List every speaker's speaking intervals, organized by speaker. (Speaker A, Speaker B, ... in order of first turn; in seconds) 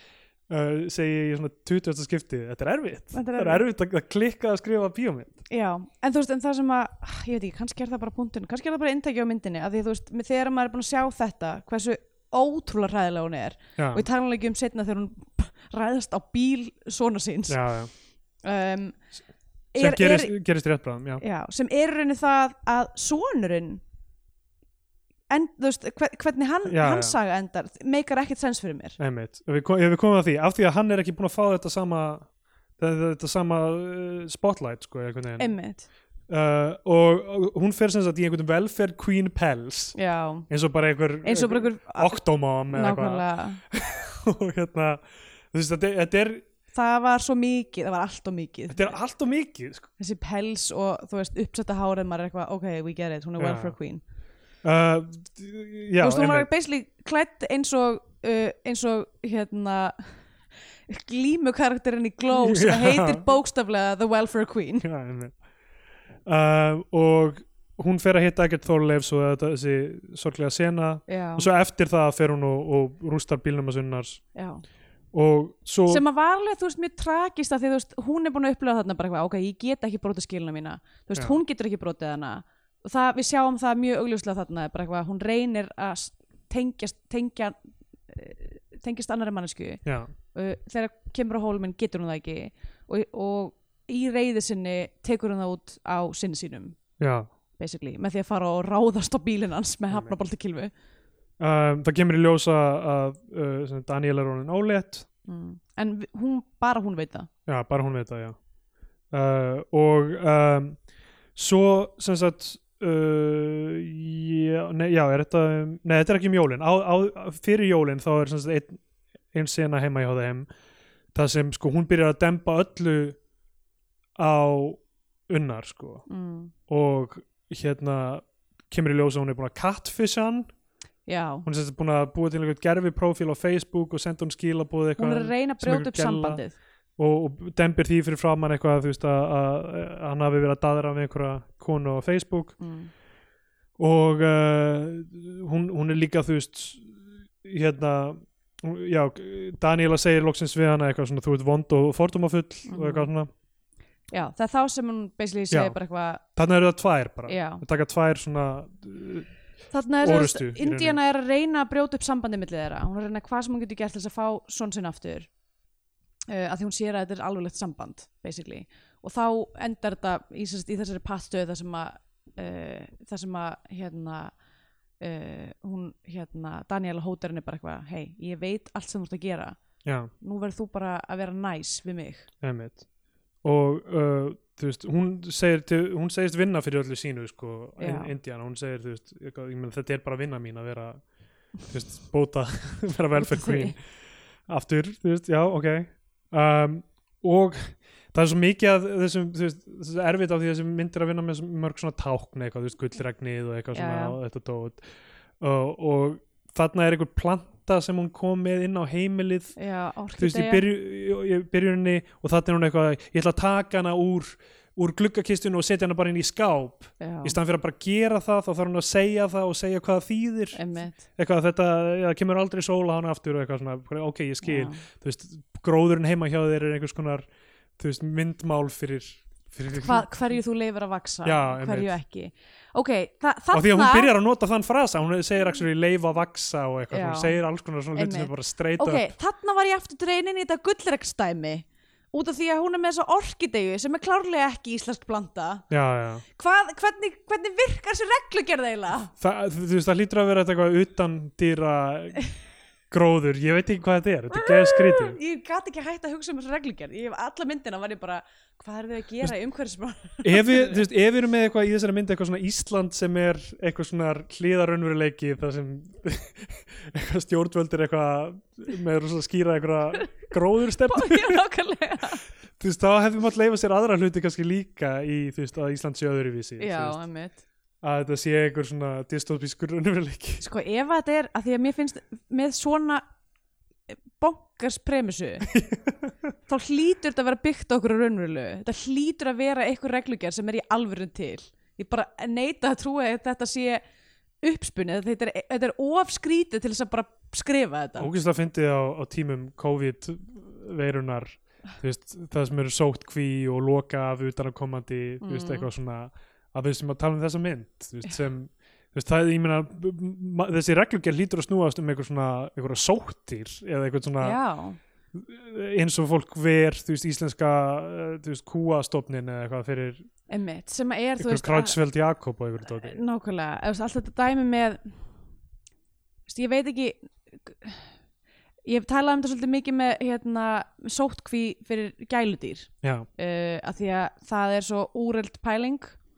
Speaker A: 0.5-5.4, 13.8-14.0, 17.5-17.9, 19.8-21.2, 26.6-27.1, 29.0-35.5, 36.3-40.0, 40.5-46.4, 48.7-49.9, 53.4-53.7, 54.6-56.5, 62.3-63.2, 64.8-65.3, 66.2-74.2, 75.1-76.0, 89.8-90.1, 97.0-97.3, 101.4-105.1, 107.5-108.4, 109.1-110.8, 111.3-118.8, 119.3-120.5, 121.1-123.2, 124.2-126.0, 126.7-130.5, 131.4-136.4, 137.0-142.6, 143.8-153.3, 155.5-155.8, 156.3-159.3, 160.0-161.0, 179.8-180.1, 182.4-182.8, 183.4-191.0, 191.7-193.8, 194.5-204.8, 205.4-209.6, 210.2-220.6, 221.2-227.3, 227.8-230.1, 231.2-231.9, 233.5-239.1, 245.7-246.2, 249.2-252.2, 252.9-255.2, 260.2-271.4, 272.6-277.0, 277.8-280.4, 285.5-286.1, 298.0-314.4, 315.1-320.1, 321.2-323.0, 332.8-333.1
Speaker B: 3.1-3.6, 5.5-17.6, 18.4-19.0, 19.7-20.3, 21.2-23.8, 25.3-29.0, 35.4-35.9, 39.9-40.5, 41.2-43.6, 46.7-48.9, 50.0-54.0, 56.0-60.2, 60.9-64.8, 71.1-71.5, 74.3-74.6, 75.9-87.5, 88.1-89.8, 90.3-96.8, 97.6-100.7, 105.3-107.3, 126.1-126.5, 131.1-131.4, 135.0-136.6, 142.6-142.9, 152.7-153.1, 154.1-156.2, 157.3-157.6, 159.7-165.3, 166.3-174.3, 175.0-179.6, 180.2-182.3, 187.8-188.1, 193.2-193.8, 203.7-204.2, 209.6-210.6, 217.0-217.3, 220.5-221.0, 224.4-224.8, 229.7-234.1, 236.9-237.3, 237.9-245.6, 246.3-249.1, 254.3-260.8, 270.9-272.2, 276.6-277.4, 280.4-283.0, 283.9-285.5, 286.5-293.8, 294.4-298.1, 305.2-305.7, 314.2-314.8, 320.3-321.8, 322.8-324.9, 326.3-327.9, 328.6-335.9